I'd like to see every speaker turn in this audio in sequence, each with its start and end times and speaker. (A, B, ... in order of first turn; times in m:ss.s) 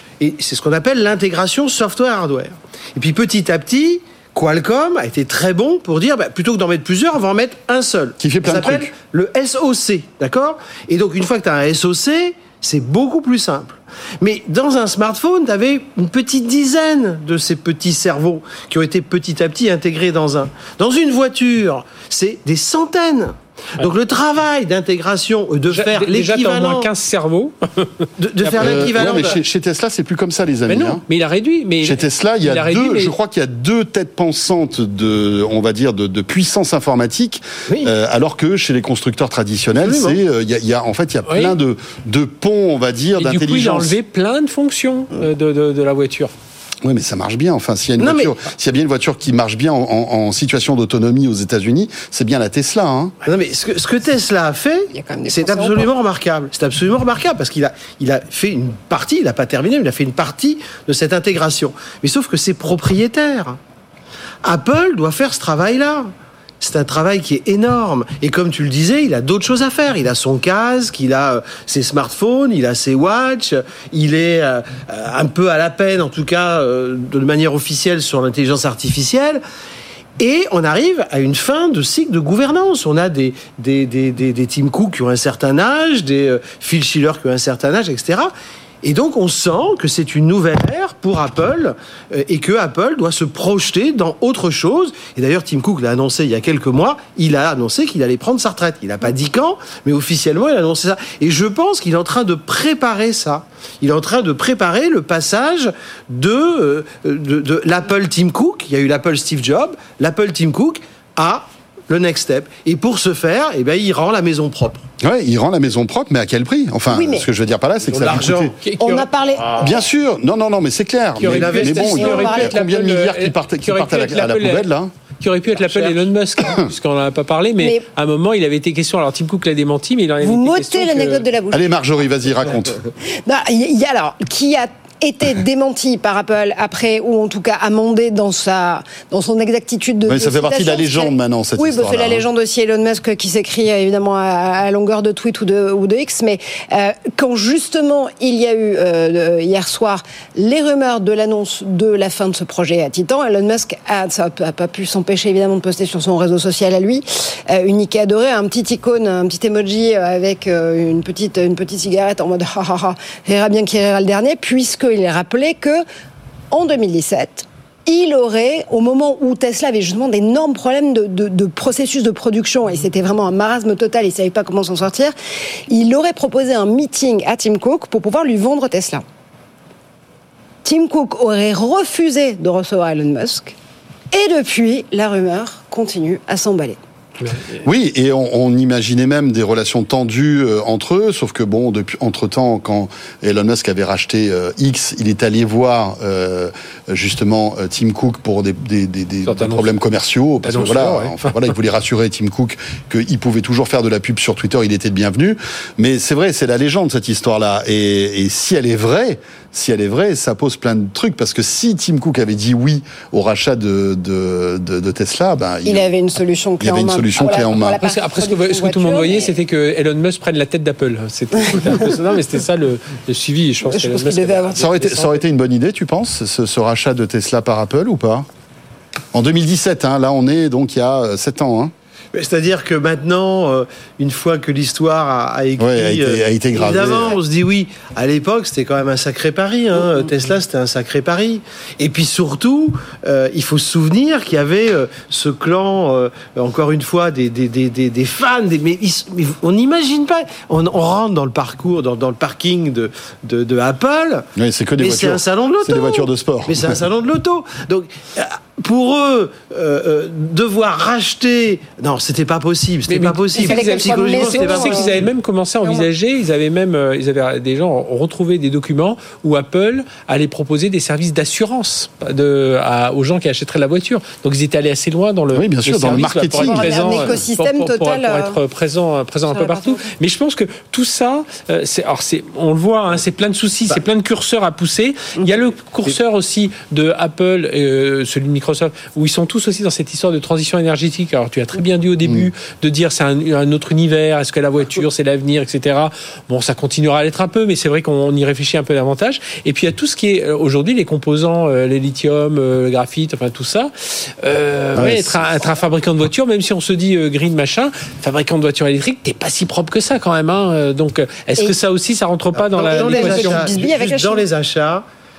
0:00.2-0:26.9 A
0:08.2-0:08.9 B
0:25.7-0:28.9 C
0:28.2-0:29.4 A
0:28.6-0:31.0 B
0:30.7-0:33.2 C
0:31.8-0:44.0 B
0:37.7-0:37.9 A
0:39.8-0:40.2 A
0:41.3-0:41.6 C
0:43.2-0:46.3 C
0:46.8-0:53.1 B
0:48.0-0:48.4 A
0:53.2-1:03.6 A
0:54.9-0:55.9 D
1:04.4-1:19.4 A
1:20.2-1:28.3 A
1:28.8-1:54.8 A
1:55.0-1:58.6 B
1:56.9-1:57.3 D
1:57.9-1:58.6 A
1:58.6-1:59.1 C
1:58.8-1:59.8 D
1:59.6-2:04.9 B
2:01.2-2:04.7 C
2:01.2-2:02.0 A
2:01.8-2:02.6 D
2:05.2-2:11.2 C
2:07.6-2:07.8 D
2:10.2-2:11.7 D
2:11.5-2:12.8 B
2:13.2-2:45.8 D
2:20.1-2:22.2 B
2:46.5-2:55.1 D
2:55.7-2:59.0 D
3:00.6-3:03.5 D
3:04.1-3:06.8 D
3:07.2-3:07.6 C
3:07.6-3:35.9 B
3:19.2-3:19.7 C
3:20.4-3:21.3 C
3:35.6-3:39.4 D
3:36.6-3:37.8 B
3:37.8-3:45.2 C
3:41.5-3:41.8 D
3:43.6-3:44.6 D
3:44.6-3:48.3 B
3:49.1-3:51.7 B
3:52.1-4:14.3 A
3:55.6-3:57.2 B
4:14.4-4:16.8 B
4:14.8-4:25.1 A
4:22.9-5:13.5 C
4:23.3-4:24.9 D
4:35.3-4:37.1 B
4:36.3-4:38.4 D
4:39.3-4:39.9 D
5:04.8-5:05.3 B
5:12.4-5:14.8 A
5:12.6-5:14.2 D